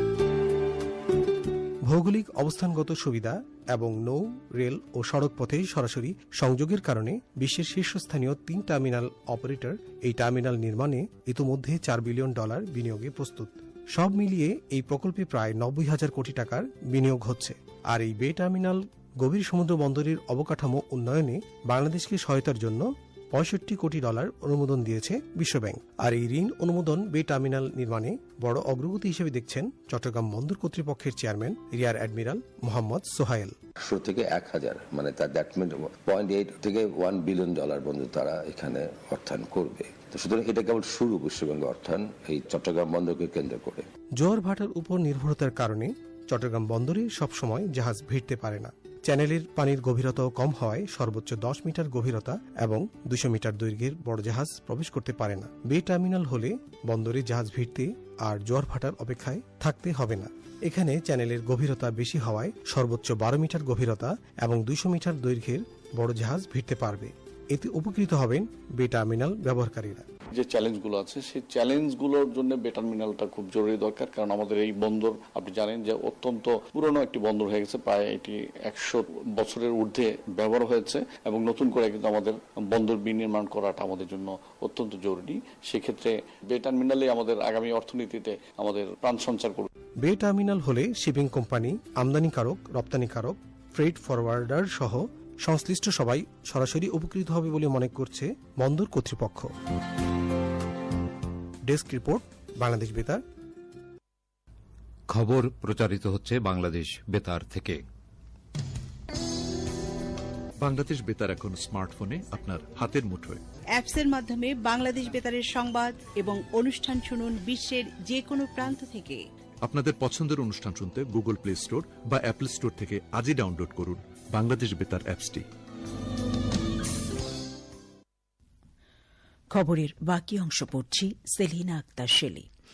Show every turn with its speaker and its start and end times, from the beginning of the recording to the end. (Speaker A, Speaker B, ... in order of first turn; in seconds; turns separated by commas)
Speaker A: 1.8-33.6, Speaker B: 33.9-43.9, Speaker A: 44.2-70.1, Speaker C: 70.3-89.7, Speaker A: 90.0-99.5, Speaker A: 101.7-103.2, Speaker D: 105.1-107.8, Speaker E: 110.6-113.4, Speaker F: 113.8-119.2, Speaker E: 119.6-125.5, Speaker G: 129.5-132.5